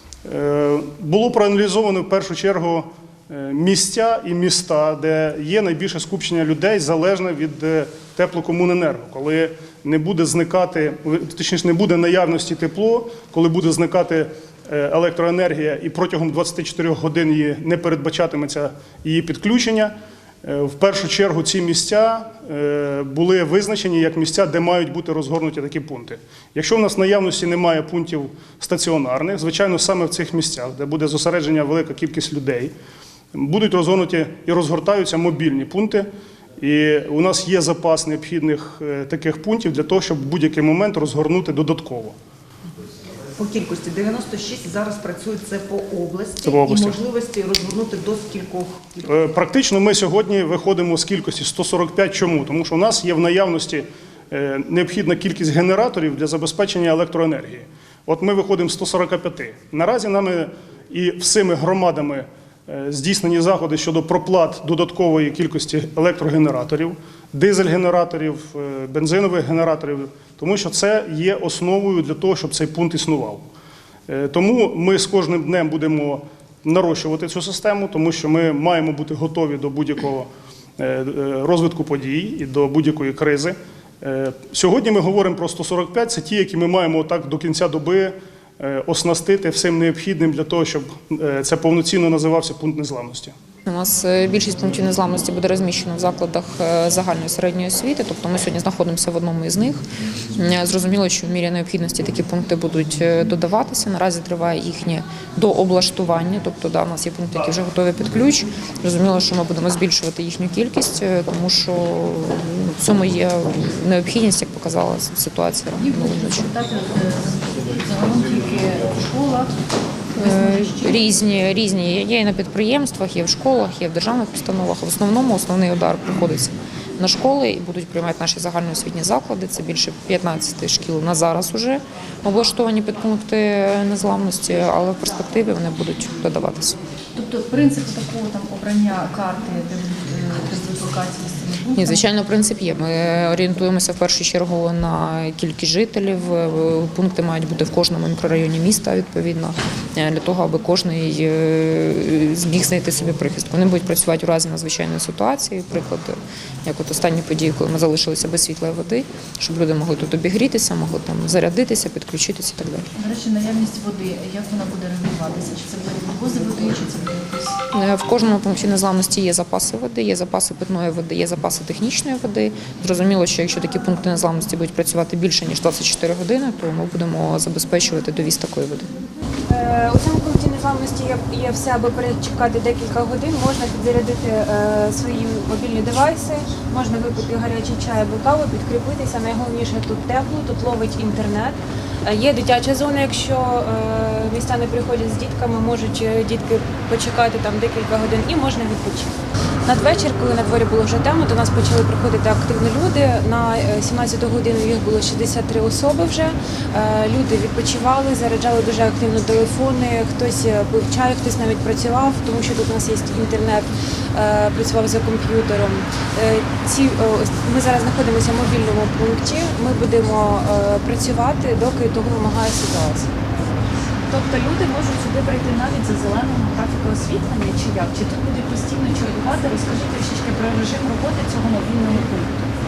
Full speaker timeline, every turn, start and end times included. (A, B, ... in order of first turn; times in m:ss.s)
0:00.2-0:32.7 A
0:33.3-0:36.1 A
0:36.6-0:42.1 A
0:43.4-0:49.0 B
0:46.4-0:47.0 A
0:49.0-1:13.4 A
1:14.1-1:33.3 A
1:33.6-1:39.8 C
1:40.4-1:56.5 C
1:55.8-1:59.5 D
2:00.2-2:01.1 D
2:00.2-2:16.8 C
2:17.1-2:22.0 D
2:21.7-2:42.9 C
2:43.0-2:47.6 D
2:47.7-2:58.9 C
2:59.5-3:19.1 E
3:19.6-3:43.1 E
3:44.4-3:52.3 D
3:48.9-3:50.0 E